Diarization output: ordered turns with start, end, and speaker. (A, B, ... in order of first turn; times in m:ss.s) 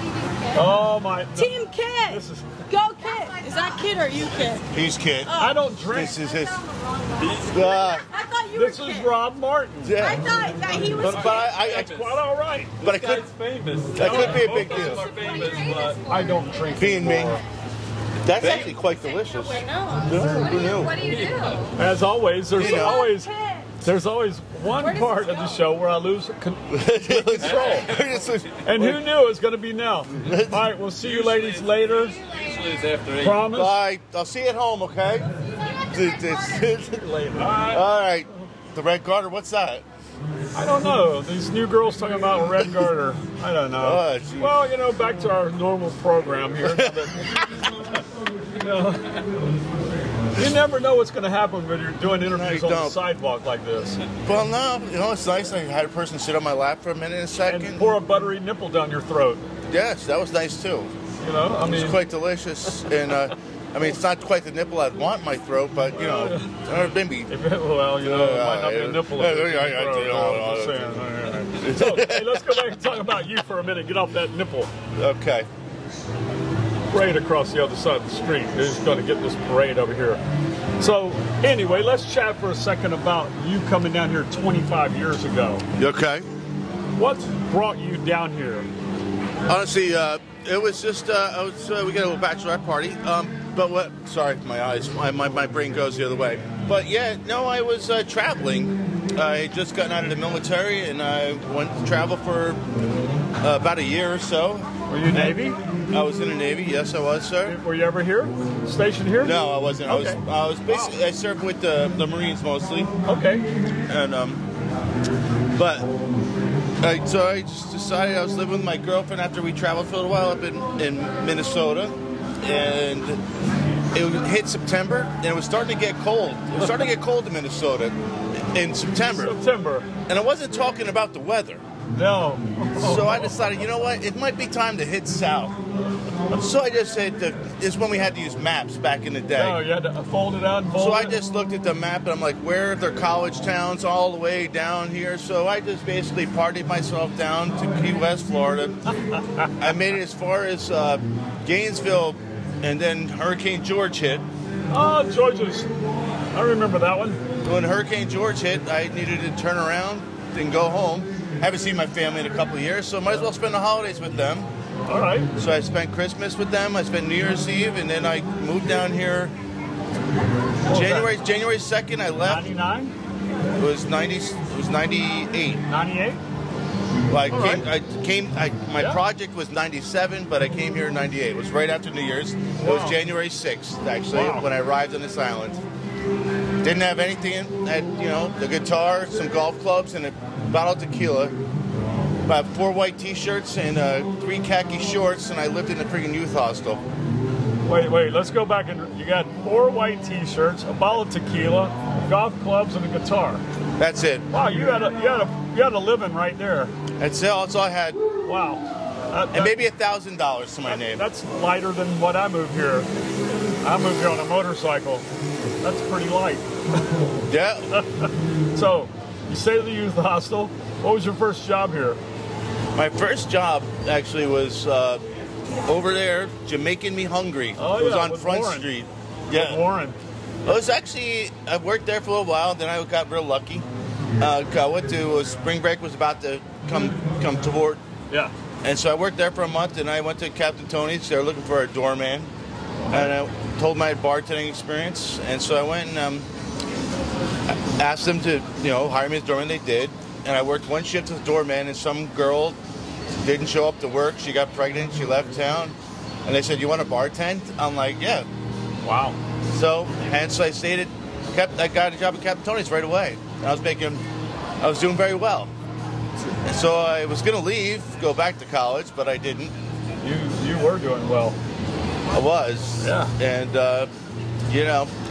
0:00.5-0:01.5 A
0:01.3-0:05.6 B
0:02.0-0:02.6 A
0:04.7-0:05.3 C
0:05.4-0:06.2 A
0:05.8-0:06.6 C
0:06.5-0:09.1 B
0:07.2-0:07.6 D
0:07.5-0:08.0 C
0:08.5-0:10.0 A
0:09.8-0:11.9 C
0:10.0-0:11.5 B
0:10.8-0:12.2 D
0:11.4-0:12.8 A
0:12.8-0:13.3 C
0:12.8-0:16.0 D
0:14.0-0:15.1 C
0:14.0-0:15.0 A
0:14.5-0:16.5 B
0:16.0-0:17.4 A
0:16.8-0:17.4 C
0:18.2-0:21.0 C
0:18.4-0:18.8 D
0:18.6-0:21.7 B
0:21.0-0:21.7 D
0:21.7-0:27.9 A
0:22.5-0:23.1 C
0:22.6-0:23.7 B
0:24.8-0:25.6 B
0:26.7-0:29.0 C
0:27.4-0:28.2 D
0:28.6-0:32.2 A
0:30.1-0:30.7 C
0:31.0-0:33.5 D
0:33.2-0:33.8 A
0:33.5-0:35.3 C
0:35.6-0:36.4 B
0:35.9-0:39.8 C
0:36.9-0:37.8 A
0:40.5-0:47.4 A
0:43.8-0:44.6 C
0:46.6-0:47.7 C
0:48.6-0:49.2 A
0:50.4-0:54.0 A
0:52.3-0:53.0 C
0:54.2-0:57.9 C
0:57.4-0:59.4 A
0:59.7-1:00.9 C
1:01.2-1:02.0 A
1:01.6-1:07.3 C
1:05.9-1:06.6 A
1:07.3-1:14.7 A
1:08.0-1:11.0 C
1:11.6-1:12.6 C
1:15.0-1:15.5 C
1:16.9-1:20.2 A
1:20.8-1:25.6 A
1:25.7-1:26.2 C
1:27.0-1:28.7 A
1:29.5-1:42.6 C
1:43.4-1:47.6 C
1:44.9-1:45.6 A
1:47.4-1:50.9 A
1:49.2-1:52.9 C
1:53.0-1:53.5 A
1:53.9-1:54.4 C
1:55.5-1:55.9 C
1:56.8-2:03.2 C
2:03.9-2:09.4 C
2:09.0-2:09.9 A
2:10.1-2:11.6 C
2:11.9-2:13.4 A
2:12.7-2:15.6 C
2:16.3-2:19.6 C
2:19.3-2:21.1 A
2:20.7-2:28.8 C
2:29.1-2:29.5 A
2:29.6-2:34.2 C
2:34.7-2:35.7 A
2:36.3-2:37.2 A
2:37.4-2:44.5 C
2:44.9-2:45.3 A
2:45.4-2:49.3 C
2:50.6-2:51.1 A
2:50.7-2:52.5 C
2:52.2-2:52.9 A
2:53.6-2:55.6 C
2:55.7-2:56.2 A
2:57.1-3:05.6 C
2:57.3-2:57.6 A
3:02.6-3:03.0 A
3:04.1-3:04.4 A
3:06.6-3:11.4 C
3:12.2-3:16.8 C
3:17.6-3:23.4 A
3:23.8-3:24.3 C
3:24.3-3:26.7 A
3:27.0-3:28.0 C
3:28.2-3:29.6 A
3:29.3-3:31.0 C
3:30.6-3:32.9 A
3:33.6-3:35.0 A
3:35.6-3:36.5 A
3:37.3-3:37.7 C
3:37.7-3:42.0 A
3:42.8-3:45.0 C
3:45.6-3:49.6 C
3:47.6-3:48.7 A
3:49.3-3:50.0 A
3:50.4-3:53.7 C
3:54.2-3:57.8 C
3:58.6-4:02.3 C
4:02.9-4:06.3 C
4:07.5-4:12.6 C
4:13.2-4:18.3 C
4:18.8-4:19.2 A
4:19.5-4:24.0 C
4:24.6-4:25.5 C
4:26.4-4:29.5 C
4:30.0-4:31.4 A
4:32.1-4:33.9 C
4:32.8-4:33.1 A
4:34.5-4:34.9 C